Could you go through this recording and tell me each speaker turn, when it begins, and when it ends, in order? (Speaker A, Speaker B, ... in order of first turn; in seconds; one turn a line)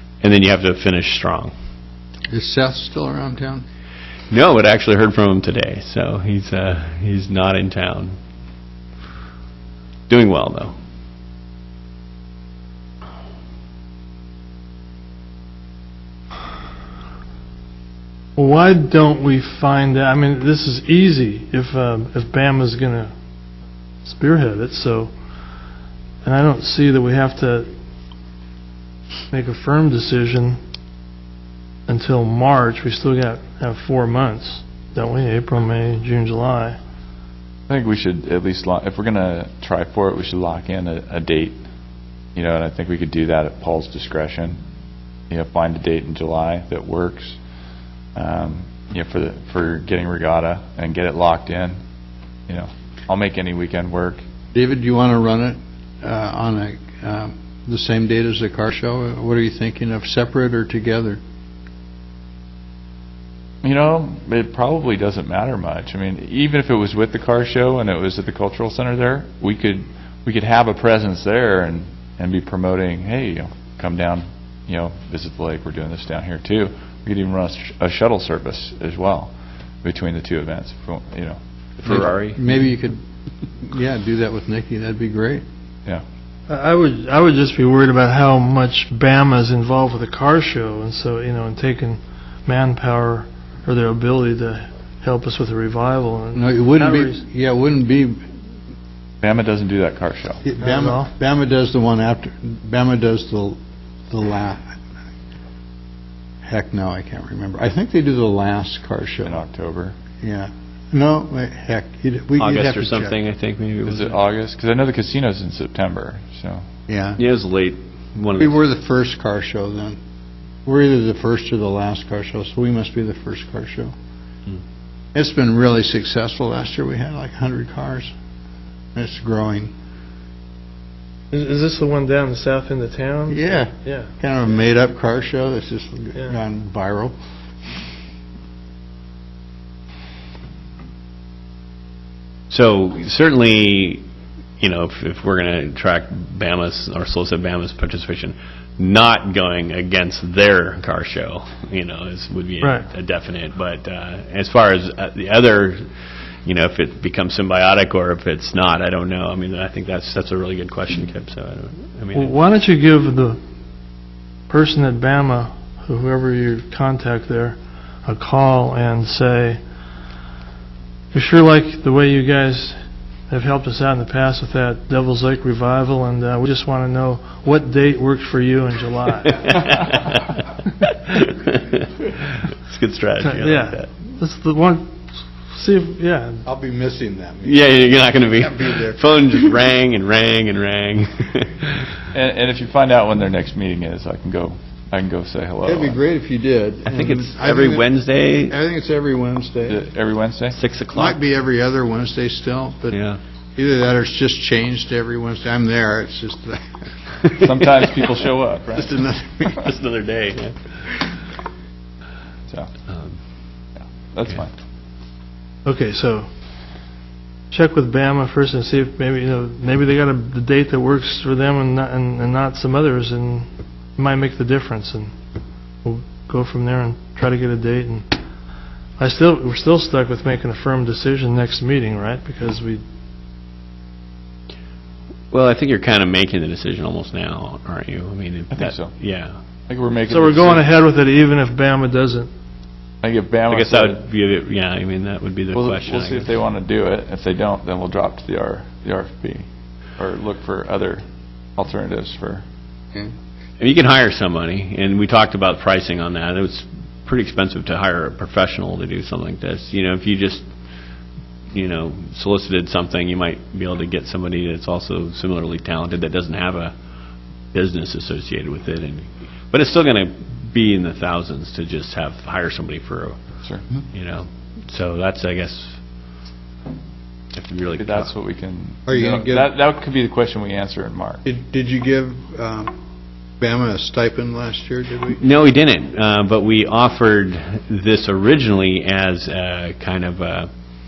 Speaker A: 0.2-1.5
Speaker B: 2.3-3.6
Speaker A: 4.3-8.2
Speaker A: 10.1-10.7
Speaker C: 18.4-23.1
Speaker C: 24.0-25.1
Speaker C: 26.2-27.7
Speaker C: 29.3-30.6
Speaker C: 31.9-36.8
Speaker D: 37.7-41.6
Speaker D: 42.3-44.6
Speaker D: 45.3-47.4
Speaker D: 48.1-51.8
Speaker D: 52.5-54.2
Speaker B: 54.5-61.2
Speaker D: 63.6-79.3
Speaker D: 79.8-81.4
Speaker A: 81.8-82.4
Speaker B: 81.8-83.0
Speaker B: 83.6-85.4
Speaker C: 86.5-97.2
Speaker B: 96.3-98.2
Speaker D: 99.2-100.4
Speaker B: 100.4-103.6
Speaker C: 100.6-101.1
Speaker B: 104.1-104.8
Speaker B: 106.4-109.4
Speaker D: 109.2-110.0
Speaker B: 110.2-113.2
Speaker A: 112.4-114.2
Speaker D: 113.8-116.7
Speaker B: 116.9-117.2
Speaker A: 117.2-118.5
Speaker B: 118.4-120.0
Speaker B: 120.6-123.9
Speaker B: 125.1-128.1
Speaker B: 128.9-129.7
Speaker C: 131.3-134.1
Speaker B: 133.3-137.1
Speaker A: 142.5-144.0
Speaker A: 144.6-155.8
Speaker C: 152.6-152.9
Speaker A: 156.4-162.3
Speaker C: 162.1-163.4
Speaker C: 164.5-169.6
Speaker C: 171.1-179.6
Speaker A: 179.5-183.9
Speaker C: 183.2-184.9
Speaker C: 185.5-186.4
Speaker B: 186.4-189.6
Speaker A: 187.4-191.9
Speaker D: 192.1-196.0
Speaker B: 195.6-197.9
Speaker A: 196.9-198.5
Speaker B: 198.5-199.8
Speaker D: 199.7-200.6
Speaker A: 200.5-201.2
Speaker B: 200.9-203.0
Speaker A: 202.9-203.2
Speaker B: 203.6-206.7
Speaker D: 207.3-208.9
Speaker B: 208.8-209.7
Speaker A: 209.5-210.6
Speaker A: 212.9-213.2
Speaker D: 213.8-214.5
Speaker C: 215.6-216.3
Speaker C: 217.5-225.1
Speaker C: 225.8-228.1
Speaker C: 229.0-232.8
Speaker A: 235.3-239.4
Speaker D: 238.5-239.0
Speaker D: 239.7-240.6
Speaker C: 240.1-242.3
Speaker D: 243.0-244.0
Speaker A: 243.5-246.3
Speaker D: 245.5-249.4
Speaker D: 250.0-251.0
Speaker D: 251.6-252.4
Speaker A: 253.6-260.5
Speaker A: 261.5-266.7
Speaker A: 267.5-273.2
Speaker A: 273.9-275.8
Speaker A: 277.3-278.1
Speaker D: 277.8-281.2
Speaker B: 278.9-279.5
Speaker B: 281.2-282.7
Speaker B: 283.4-285.2
Speaker A: 285.1-290.5